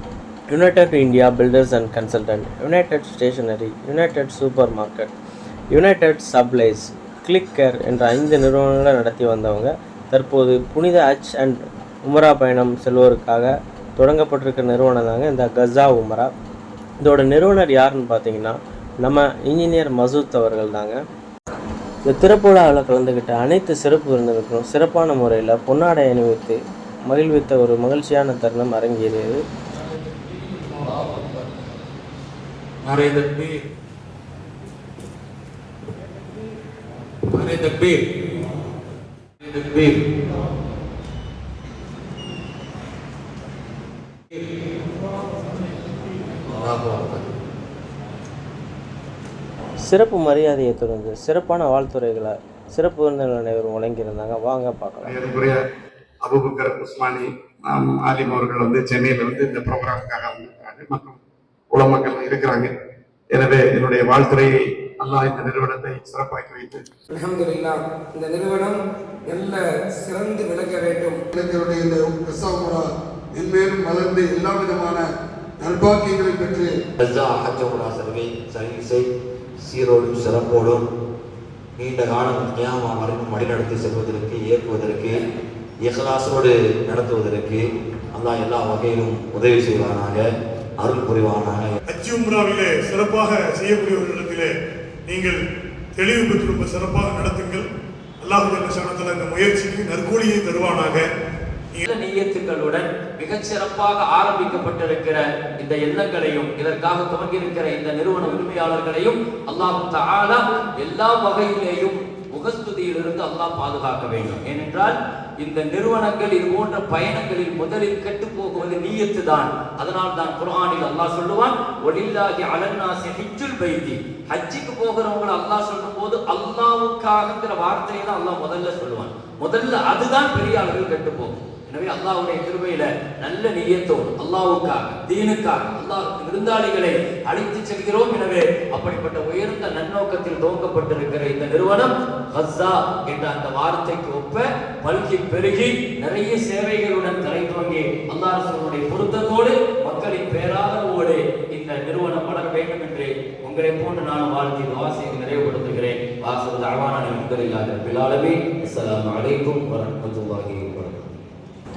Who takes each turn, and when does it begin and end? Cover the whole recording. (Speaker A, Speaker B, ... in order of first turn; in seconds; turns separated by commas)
Speaker A: 0.5-5.1, Speaker A: 5.7-16.3, Speaker A: 17.0-21.0, Speaker A: 22.1-26.6, Speaker A: 27.1-29.4, Speaker B: 30.8-31.2, Speaker B: 32.8-33.6, Speaker B: 37.3-38.0, Speaker B: 39.4-40.0, Speaker B: 46.5-47.2, Speaker A: 49.9-55.1, Speaker C: 55.0-55.5, Speaker C: 56.2-61.2, Speaker C: 61.7-62.7, Speaker C: 63.3-66.8, Speaker D: 67.1-71.2, Speaker E: 71.3-75.0, Speaker E: 75.6-76.7, Speaker B: 77.0-79.1, Speaker B: 79.6-80.8, Speaker B: 81.8-85.2, Speaker B: 85.8-90.2, Speaker B: 90.8-91.7, Speaker F: 91.9-94.5, Speaker F: 95.1-95.4, Speaker F: 96.0-97.6, Speaker F: 98.2-101.0, Speaker G: 101.8-161.1